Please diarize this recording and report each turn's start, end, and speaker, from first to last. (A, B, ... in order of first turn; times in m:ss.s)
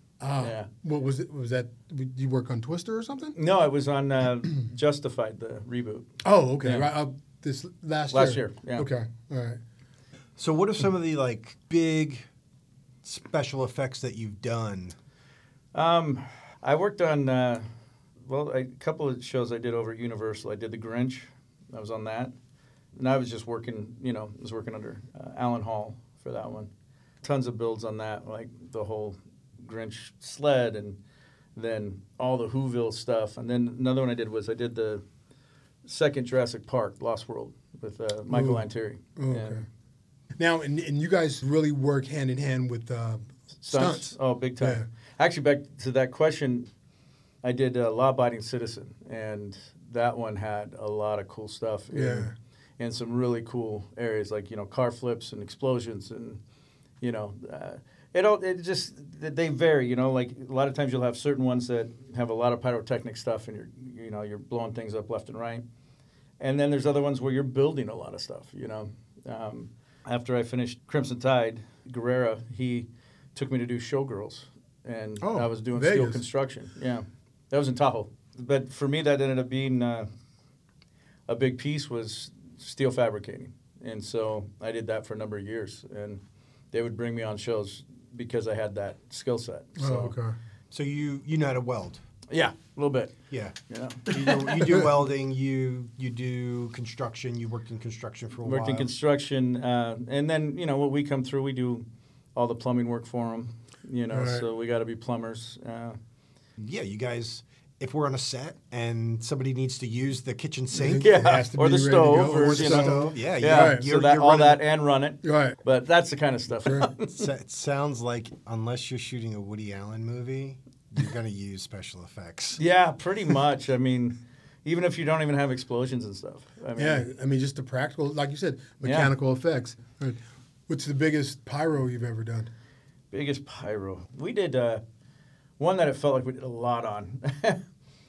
0:00.2-0:03.4 A
0:00.4-0:00.7 B
0:03.4-0:06.1 B
0:06.2-0:09.6 A
0:06.6-0:06.9 B
0:08.1-0:08.9 B
0:10.4-0:12.3 C
0:13.0-0:15.0 C
0:15.7-0:17.6 B
0:18.3-0:22.3 B
0:23.0-0:26.7 B
0:27.2-0:31.0 B
0:31.6-0:35.0 B
0:35.8-0:39.6 B
0:38.3-0:39.6 A
0:40.4-0:44.8 A
0:43.6-0:46.7 B
0:47.4-0:56.4 B
0:51.9-0:52.3 A
0:57.0-1:05.6 B
1:06.4-1:20.1 B
1:15.2-1:16.2 A
1:21.3-1:26.2 B
1:26.7-1:30.2 B
1:29.8-1:30.4 A
1:30.7-1:32.0 C
1:32.3-1:33.2 B
1:33.3-1:38.9 C
1:33.7-1:34.2 B
1:34.5-1:34.9 A
1:38.4-1:46.0 B
1:44.1-1:44.4 A
1:46.6-1:51.1 C
1:50.7-1:53.8 A
1:50.9-1:57.1 B
1:52.4-1:54.6 C
1:55.2-1:55.6 A
1:57.1-2:02.6 C
2:02.6-2:07.1 B
2:06.8-2:12.5 A
2:08.8-2:09.1 B
2:13.1-2:14.8 B
2:15.6-2:17.6 B